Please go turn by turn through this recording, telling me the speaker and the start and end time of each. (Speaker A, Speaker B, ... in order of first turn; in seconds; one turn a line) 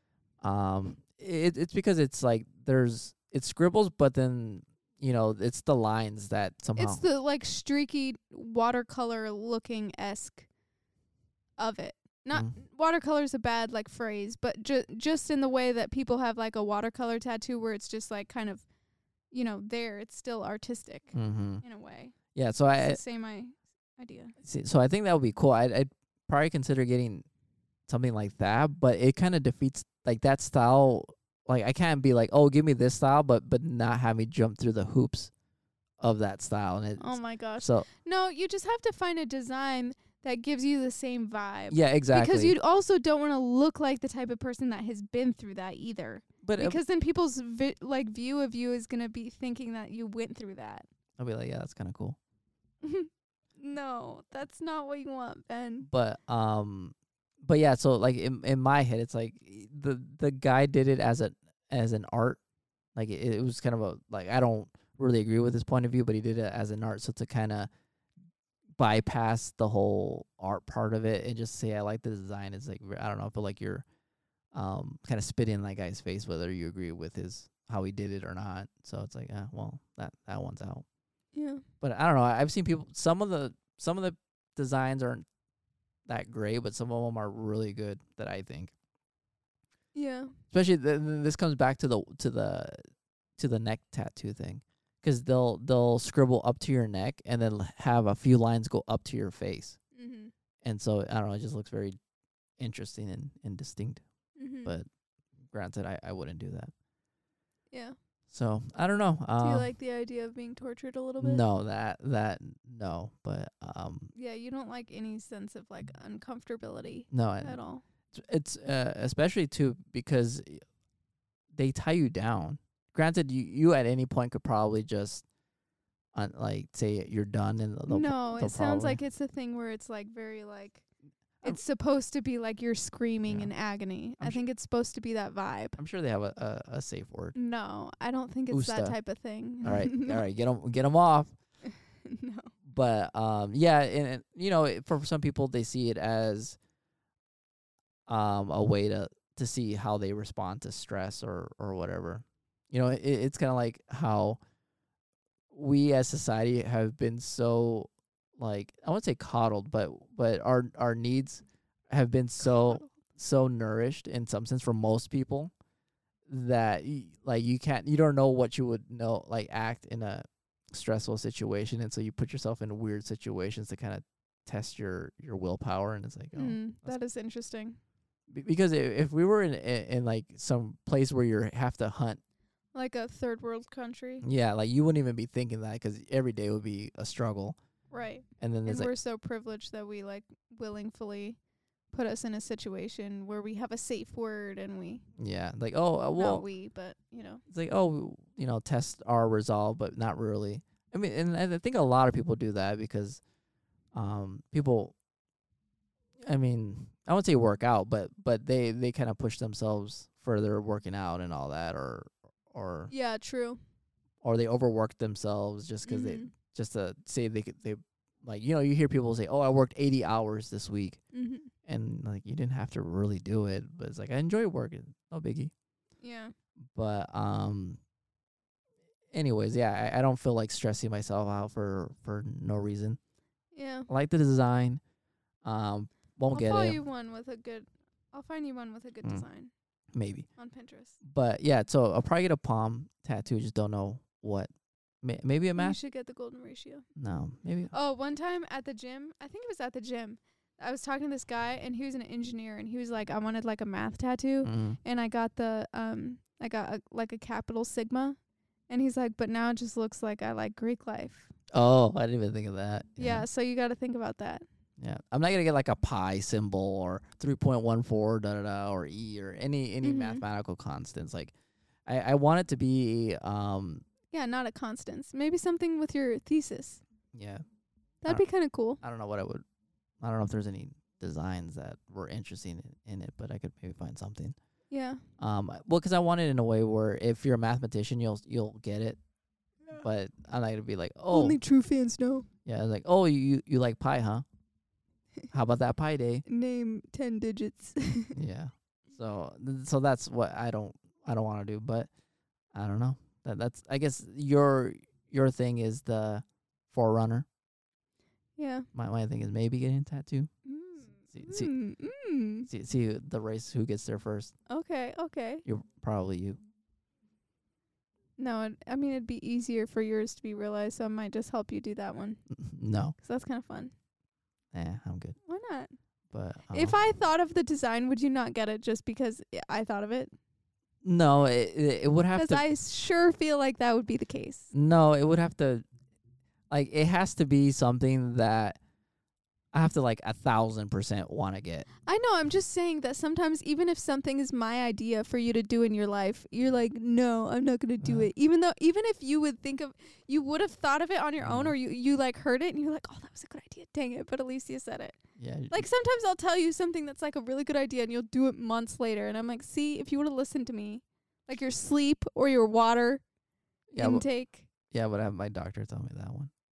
Speaker A: 0.4-7.0
Speaker B: 6.8-10.5
Speaker B: 11.6-18.6
Speaker B: 19.3-22.2
Speaker A: 21.1-21.6
Speaker A: 22.3-23.0
Speaker B: 22.7-24.3
Speaker A: 24.4-27.3
Speaker A: 27.9-35.3
Speaker A: 36.0-37.9
Speaker B: 37.0-50.9
Speaker A: 41.7-42.6
Speaker A: 46.4-46.8
Speaker A: 51.2-52.2
Speaker B: 52.8-55.9
Speaker A: 55.8-62.4
Speaker A: 63.0-67.7
Speaker A: 68.8-73.8
Speaker A: 74.5-80.8
Speaker B: 81.3-81.6
Speaker A: 81.8-85.2
Speaker A: 86.1-88.7
Speaker B: 90.0-90.3
Speaker A: 90.5-92.8
Speaker A: 93.4-99.8
Speaker B: 100.0-100.3
Speaker A: 100.6-102.0
Speaker A: 102.6-104.0
Speaker B: 104.4-104.8
Speaker A: 105.5-106.7
Speaker A: 108.3-109.7
Speaker B: 109.4-111.4
Speaker A: 111.2-114.1
Speaker B: 114.2-117.8
Speaker A: 117.1-117.6
Speaker A: 118.1-120.6
Speaker A: 121.5-125.2
Speaker A: 126.2-129.0
Speaker B: 127.9-130.8
Speaker B: 131.4-135.8
Speaker A: 135.8-137.3
Speaker B: 137.3-140.2
Speaker A: 138.5-138.9
Speaker A: 139.6-141.3
Speaker B: 141.7-142.5
Speaker A: 142.7-146.6
Speaker A: 148.1-154.4
Speaker A: 155.5-165.5
Speaker A: 166.3-176.9
Speaker B: 176.4-177.8
Speaker A: 178.3-182.2
Speaker B: 182.8-184.2
Speaker A: 184.2-187.6
Speaker B: 187.9-191.4
Speaker A: 188.4-188.9
Speaker B: 191.9-195.0
Speaker A: 195.2-196.4
Speaker B: 196.2-197.4
Speaker A: 197.5-203.2
Speaker A: 203.9-204.9
Speaker A: 206.2-212.9
Speaker B: 212.9-213.6
Speaker A: 214.2-221.0
Speaker B: 215.8-216.3
Speaker B: 221.1-221.5
Speaker A: 221.7-225.5
Speaker B: 226.0-226.3
Speaker A: 226.7-227.8
Speaker A: 229.1-233.0
Speaker B: 233.5-233.9
Speaker A: 233.9-234.8
Speaker A: 235.4-236.8
Speaker B: 236.3-239.5
Speaker A: 239.9-240.3
Speaker B: 240.4-241.0
Speaker A: 241.0-244.5
Speaker A: 245.0-245.8
Speaker B: 245.6-246.9
Speaker A: 247.0-247.7
Speaker B: 247.7-258.2
Speaker A: 254.4-254.8
Speaker B: 258.7-261.3
Speaker A: 261.5-263.3
Speaker B: 263.0-264.4
Speaker A: 264.8-271.3
Speaker B: 269.8-270.2
Speaker A: 271.9-273.9
Speaker B: 274.1-276.8
Speaker A: 277.1-277.4
Speaker B: 278.0-278.8
Speaker A: 278.8-279.4
Speaker A: 280.0-284.4
Speaker B: 284.7-285.0
Speaker A: 285.2-289.0
Speaker A: 289.8-291.4
Speaker B: 291.1-292.3
Speaker A: 292.5-294.2
Speaker A: 295.3-296.2
Speaker B: 296.3-298.2
Speaker A: 298.1-301.9
Speaker A: 302.5-307.3
Speaker B: 308.4-308.7
Speaker A: 308.7-310.3
Speaker B: 310.4-312.5
Speaker A: 311.1-311.5
Speaker A: 312.5-314.4
Speaker B: 314.5-315.4
Speaker A: 315.4-316.4
Speaker B: 318.2-322.2
Speaker A: 322.3-323.0
Speaker B: 323.0-323.7
Speaker A: 324.5-325.2
Speaker B: 325.3-325.7
Speaker A: 326.1-326.8
Speaker B: 326.5-330.1
Speaker A: 330.8-332.4
Speaker B: 332.2-334.5
Speaker A: 334.5-335.6
Speaker A: 336.5-338.6
Speaker A: 339.5-341.7
Speaker B: 341.9-355.0
Speaker A: 347.8-348.1
Speaker A: 351.2-351.6
Speaker A: 355.2-355.6
Speaker B: 355.5-363.0
Speaker A: 363.7-364.1
Speaker B: 363.8-364.5
Speaker A: 364.7-366.3